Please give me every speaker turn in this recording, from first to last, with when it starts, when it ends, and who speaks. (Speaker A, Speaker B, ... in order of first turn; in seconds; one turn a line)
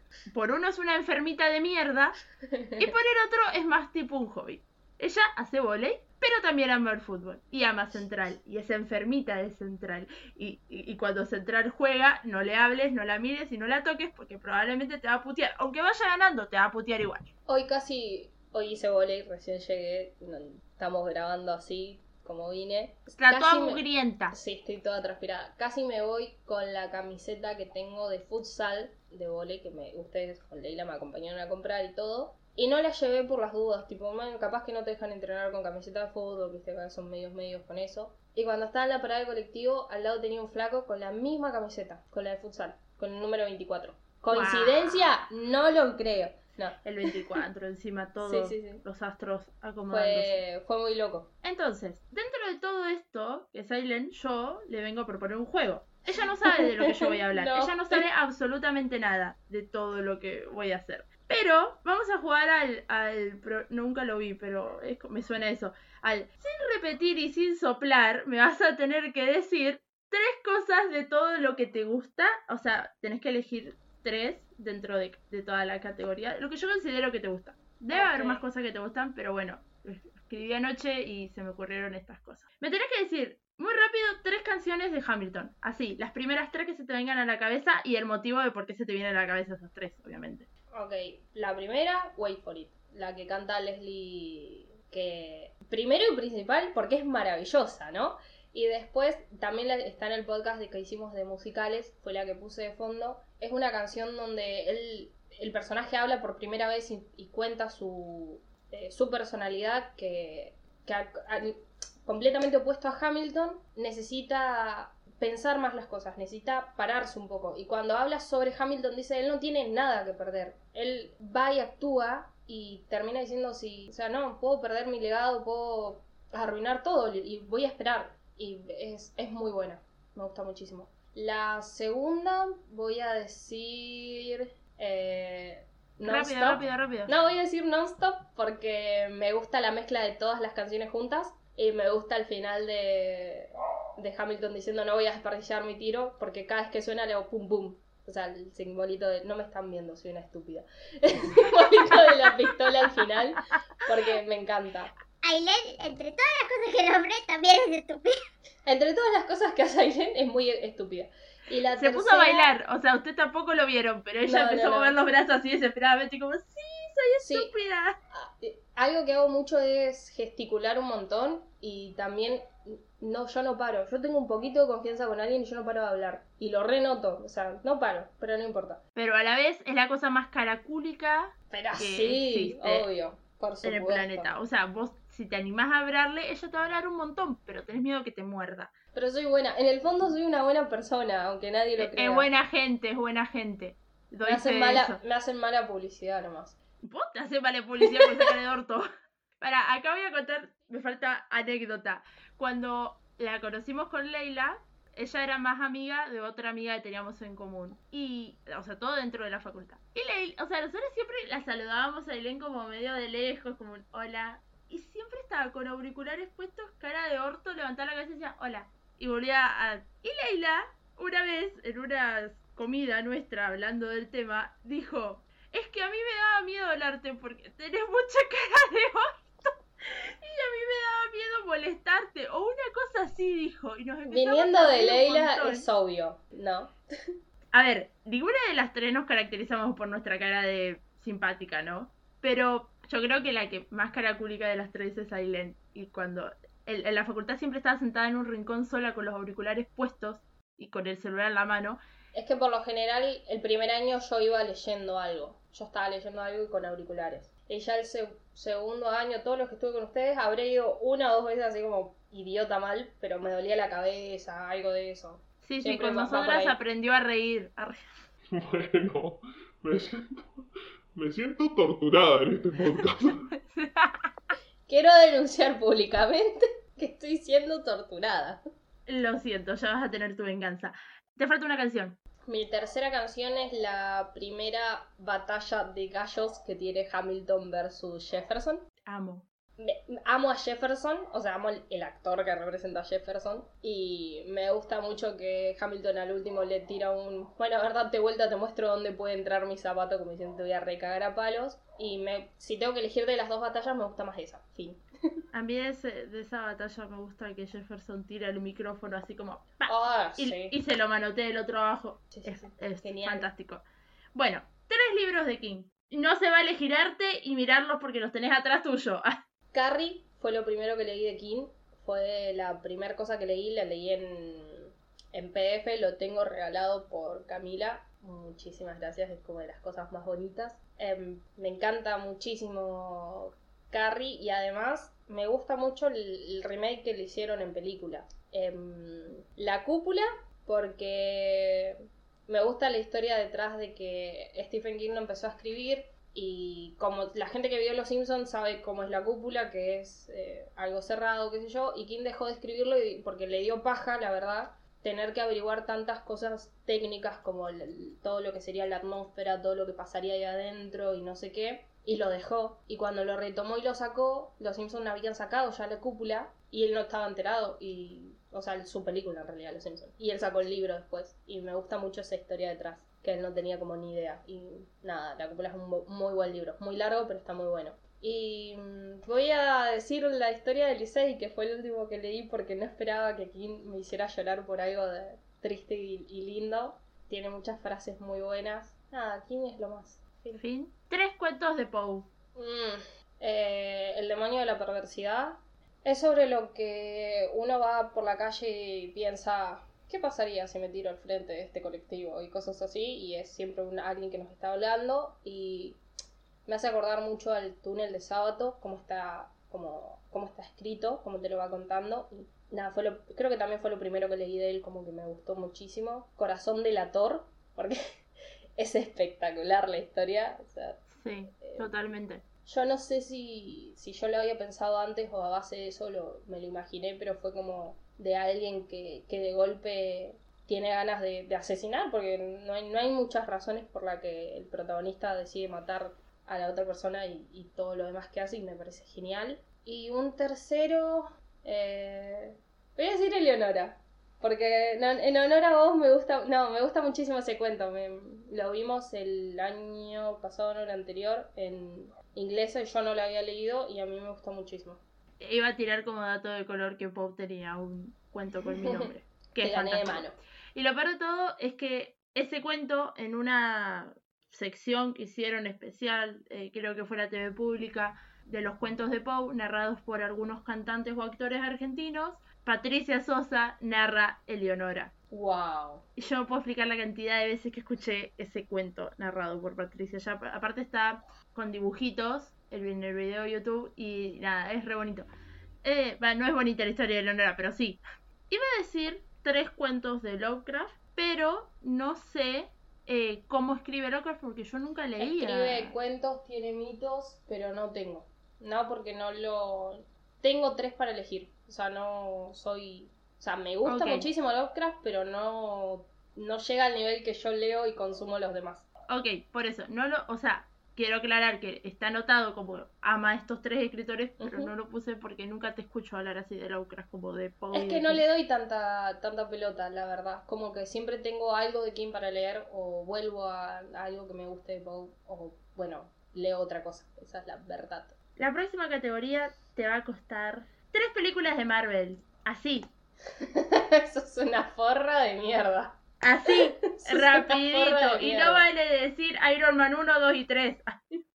Speaker A: 0.3-2.2
Speaker B: 2.5-2.9
Speaker A: 2.8-17.3
Speaker B: 17.5-47.4
Speaker A: 23.2-24.4
Speaker A: 44.3-45.1
Speaker A: 46.8-50.4
Speaker B: 48.2-48.8
Speaker B: 49.9-51.3
Speaker A: 51.4-90.5
Speaker B: 56.5-58.1
Speaker B: 77.9-78.5
Speaker B: 90.7-154.9
Speaker A: 136.1-137.1
Speaker A: 151.9-152.3
Speaker C: 155.2-158.1
Speaker B: 158.7-162.5
Speaker A: 161.8-168.0
Speaker B: 164.2-165.0
Speaker B: 167.2-167.5
Speaker B: 168.1-178.8
Speaker A: 179.0-182.9
Speaker B: 181.5-184.3
Speaker A: 183.6-188.7
Speaker B: 188.9-192.3
Speaker A: 191.8-195.0
Speaker B: 194.2-196.6
Speaker A: 196.8-198.9
Speaker A: 199.4-235.7
Speaker B: 234.1-236.7
Speaker A: 237.5-251.8
Speaker B: 252.1-266.6
Speaker A: 265.4-267.9
Speaker D: 268.4-270.3
Speaker D: 271.0-273.3
Speaker A: 273.1-274.1
Speaker B: 274.7-278.4
Speaker A: 278.9-282.0
Speaker B: 282.3-288.7
Speaker A: 288.9-289.2
Speaker B: 289.6-304.8
Speaker A: 305.3-313.6
Speaker B: 309.7-310.6
Speaker B: 312.1-313.3
Speaker A: 314.1-319.2
Speaker B: 319.5-390.4
Speaker A: 390.3-392.1
Speaker B: 392.4-405.8
Speaker B: 406.5-417.8
Speaker B: 418.6-421.7
Speaker A: 420.9-422.2
Speaker B: 422.5-454.8
Speaker A: 455.2-474.9
Speaker B: 458.5-460.2
Speaker B: 475.1-475.9
Speaker A: 476.0-485.1
Speaker A: 485.6-495.8
Speaker B: 495.0-508.7
Speaker A: 503.6-504.1
Speaker A: 508.9-518.0
Speaker B: 514.2-514.5
Speaker B: 517.5-528.0
Speaker A: 528.2-532.7
Speaker B: 533.2-535.8
Speaker A: 536.0-540.8
Speaker B: 536.3-538.5